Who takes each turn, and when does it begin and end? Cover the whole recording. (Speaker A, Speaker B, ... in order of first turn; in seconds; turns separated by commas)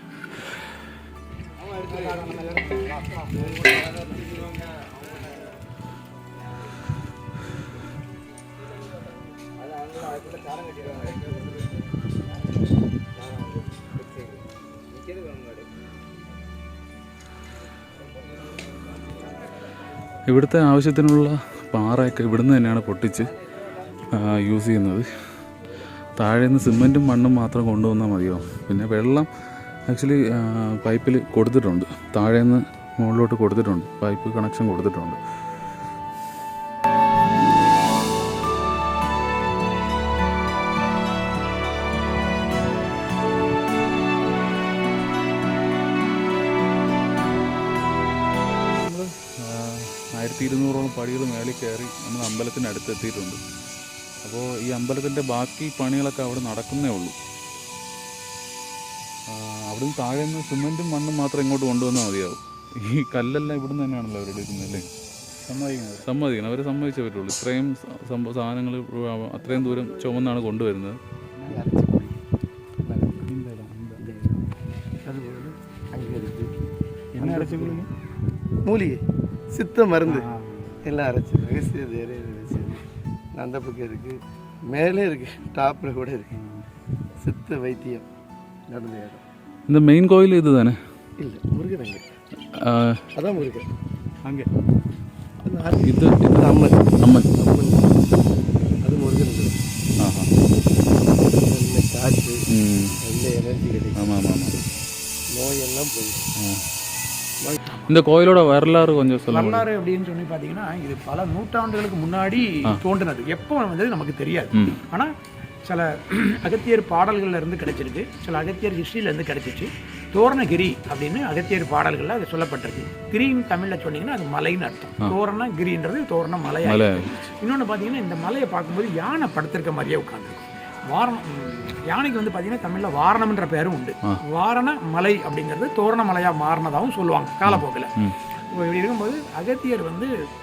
Speaker A: 2.2-2.5, Speaker B: 20.3-23.3, Speaker B: 24.1-25.1, Speaker B: 26.1-29.3, Speaker B: 29.9-35.2, Speaker B: 48.7-53.4, Speaker B: 54.2-57.1, Speaker B: 59.3-64.9, Speaker C: 65.4-66.1, Speaker B: 66.0-71.0, Speaker C: 71.4-71.7, Speaker A: 71.5-72.2, Speaker A: 72.8-73.3, Speaker C: 73.3-74.0, Speaker A: 74.0-74.5, Speaker A: 75.0-77.8, Speaker C: 77.2-77.9, Speaker A: 78.6-80.3, Speaker C: 80.0-80.8, Speaker A: 80.8-82.8, Speaker A: 83.3-86.3, Speaker A: 87.2-88.0, Speaker A: 88.7-89.2, Speaker B: 89.7-90.8, Speaker A: 91.2-92.0, Speaker B: 92.5-93.1, Speaker A: 93.1-93.7, Speaker A: 95.4-99.6, Speaker B: 95.8-97.3, Speaker B: 100.0-100.3, Speaker A: 101.1-102.5, Speaker B: 102.5-103.0, Speaker A: 103.0-104.2, Speaker B: 103.9-104.5, Speaker A: 105.3-106.3, Speaker B: 106.4-106.6, Speaker B: 107.8-109.7, Speaker D: 109.3-115.1, Speaker B: 114.5-114.8, Speaker D: 115.7-140.1, Speaker B: 126.6-127.1, Speaker B: 137.4-138.2